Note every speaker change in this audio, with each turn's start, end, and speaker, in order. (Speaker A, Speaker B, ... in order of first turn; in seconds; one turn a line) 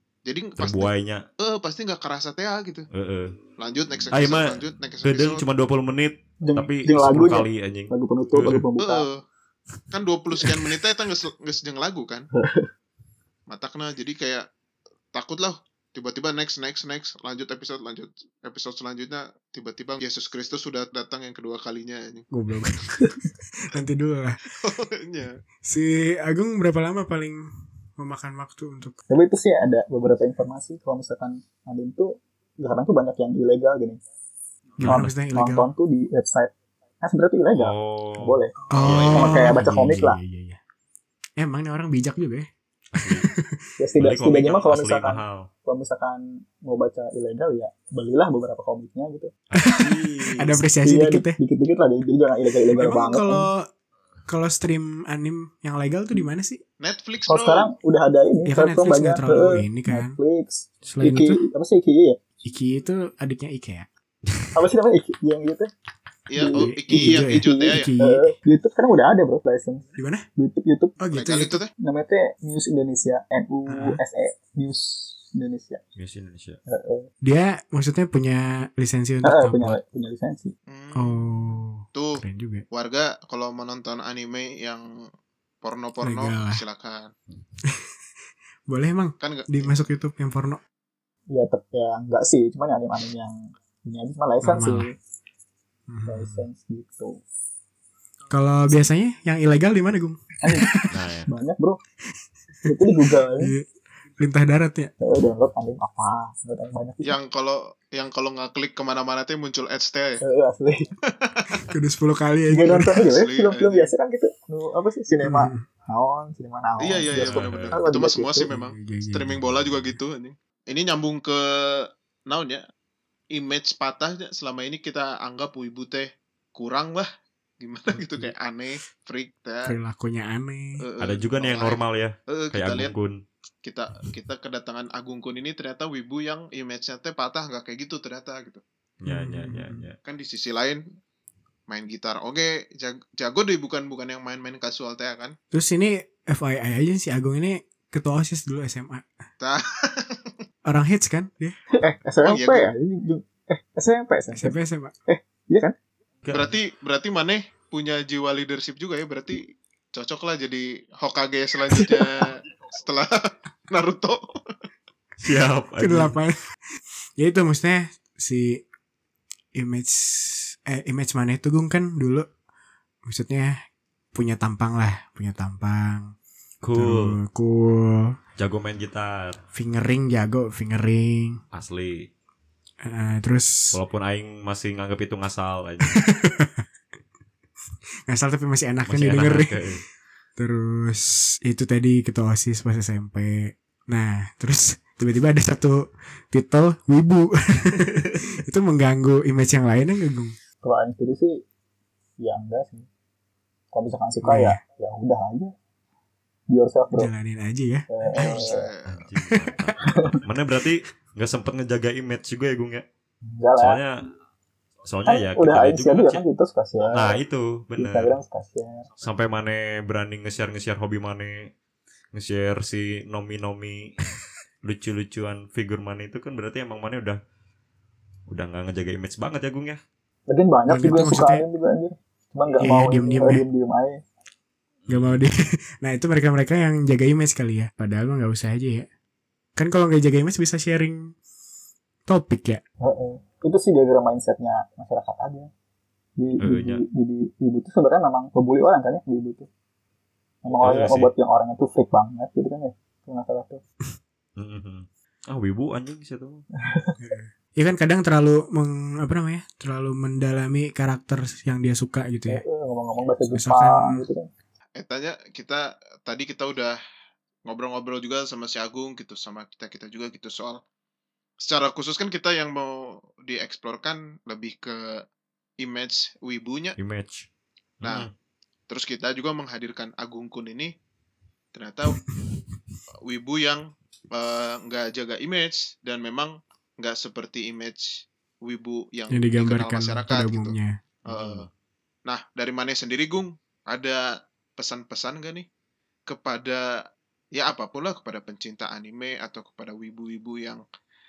Speaker A: 0.2-2.9
Speaker B: 0.6-1.2
Speaker B: 2.9-3.4
Speaker A: 3.6-5.4
Speaker B: 4.0-8.6
Speaker C: 6.4-9.1
Speaker A: 8.8-9.2
Speaker A: 9.9-12.3
Speaker C: 12.3-12.7
Speaker A: 13.5-14.4
Speaker A: 15.1-22.2
Speaker D: 22.3-24.4
Speaker A: 24.6-25.3
Speaker D: 25.6-29.0
Speaker C: 29.1-34.0
Speaker D: 34.8-35.7
Speaker B: 34.8-35.1
Speaker C: 34.8-38.5
Speaker B: 37.5-39.6
Speaker D: 38.7-40.6
Speaker C: 39.1-40.2
Speaker D: 41.4-42.5
Speaker B: 42.9-43.3
Speaker D: 43.0-43.5
Speaker C: 43.8-49.3
Speaker B: 44.0-45.5
Speaker B: 49.5-50.4
Speaker D: 49.6-51.4
Speaker C: 50.8-53.5
Speaker D: 52.7-53.7
Speaker D: 54.3-56.6
Speaker A: 56.8-57.7
Speaker C: 57.3-62.2
Speaker D: 58.4-60.2
Speaker D: 60.9-61.4
Speaker D: 62.4-63.9
Speaker C: 64.5-65.7
Speaker A: 66.3-67.9
Speaker C: 66.4-71.0
Speaker D: 66.4-68.4
Speaker D: 69.9-70.3
Speaker D: 71.0-71.6
Speaker A: 71.1-71.7
Speaker C: 71.8-75.8
Speaker D: 73.7-74.0
Speaker B: 76.0-76.6
Speaker C: 76.7-77.1
Speaker D: 77.2-79.8
Speaker C: 79.2-80.5
Speaker A: 80.7-84.9
Speaker D: 80.9-82.6
Speaker A: 85.6-87.1
Speaker D: 86.0-86.6
Speaker D: 88.7-90.6
Speaker A: 89.2-89.8
Speaker C: 91.3-94.9
Speaker D: 94.4-94.9
Speaker D: 95.9-96.4
Speaker C: 96.0-97.2
Speaker D: 98.3-100.2
Speaker C: 100.4-101.8
Speaker B: 100.9-101.3
Speaker C: 102.6-103.5
Speaker D: 102.7-103.6
Speaker D: 104.2-104.9
Speaker C: 105.0-107.1
Speaker A: 107.0-110.2
Speaker C: 110.2-110.9
Speaker A: 111.1-111.6
Speaker D: 111.5-113.0
Speaker C: 112.5-118.5
Speaker A: 112.9-113.9
Speaker D: 115.2-115.6
Speaker A: 116.8-122.6
Speaker B: 117.1-117.8
Speaker D: 118.5-120.0
Speaker A: 123.3-127.1
Speaker A: 127.6-129.7
Speaker D: 127.9-128.3
Speaker D: 129.6-130.8
Speaker A: 130.8-132.9
Speaker B: 131.0-133.2
Speaker A: 133.6-138.6
Speaker B: 139.0-139.9
Speaker D: 139.1-139.8
Speaker A: 140.0-140.8
Speaker A: 141.7-145.3
Speaker D: 145.5-149.1
Speaker A: 149.4-150.3
Speaker D: 150.7-151.6
Speaker C: 151.8-154.6
Speaker A: 152.2-152.7
Speaker D: 154.3-154.9
Speaker C: 155.1-155.7
Speaker B: 156.2-156.6
Speaker A: 156.3-164.2
Speaker C: 161.7-162.2
Speaker B: 165.2-166.1
Speaker D: 165.8-166.4
Speaker D: 167.2-168.6
Speaker D: 169.5-172.3
Speaker D: 173.1-173.6
Speaker D: 174.1-176.1
Speaker B: 176.6-177.2
Speaker D: 176.8-178.2
Speaker B: 178.4-179.4
Speaker D: 179.5-181.4
Speaker B: 181.5-182.1
Speaker D: 182.8-183.8
Speaker B: 183.7-185.9
Speaker D: 185.8-186.6
Speaker D: 188.1-189.8
Speaker B: 188.9-189.8
Speaker D: 190.4-200.3
Speaker C: 200.6-201.4
Speaker C: 202.2-202.9
Speaker C: 203.7-205.5
Speaker D: 204.2-204.6
Speaker C: 206.5-207.1
Speaker D: 206.9-208.4
Speaker C: 207.9-208.7
Speaker A: 208.1-209.1
Speaker B: 208.8-212.8
Speaker D: 209.3-209.6
Speaker C: 209.8-210.2
Speaker C: 213.3-213.8
Speaker B: 213.6-213.9
Speaker B: 214.8-216.2
Speaker C: 215.1-217.2
Speaker B: 216.8-218.1
Speaker C: 217.8-218.8
Speaker B: 219.0-221.5
Speaker B: 222.1-223.9
Speaker B: 224.6-227.2
Speaker B: 228.3-229.8
Speaker C: 230.3-234.0
Speaker D: 230.7-231.4
Speaker D: 232.6-233.4
Speaker B: 234.8-235.2
Speaker D: 234.9-238.9
Speaker D: 239.6-241.1
Speaker D: 242.1-242.6
Speaker C: 242.8-245.5
Speaker C: 246.2-249.5
Speaker B: 246.4-246.8
Speaker C: 250.4-253.6
Speaker B: 250.6-251.1
Speaker B: 254.4-256.4
Speaker C: 256.6-257.0
Speaker D: 257.0-262.4
Speaker C: 262.3-264.3
Speaker D: 263.3-264.1
Speaker A: 264.8-266.8
Speaker A: 267.4-270.6
Speaker A: 271.4-275.0
Speaker A: 275.6-276.8
Speaker B: 276.8-277.3
Speaker B: 277.8-278.1
Speaker A: 278.7-280.7
Speaker A: 281.5-282.0
Speaker A: 283.0-290.5
Speaker D: 289.1-290.8
Speaker A: 291.1-291.5
Speaker B: 291.1-291.5
Speaker A: 292.1-294.1
Speaker A: 294.6-295.4
Speaker A: 296.1-296.7
Speaker A: 297.4-300.6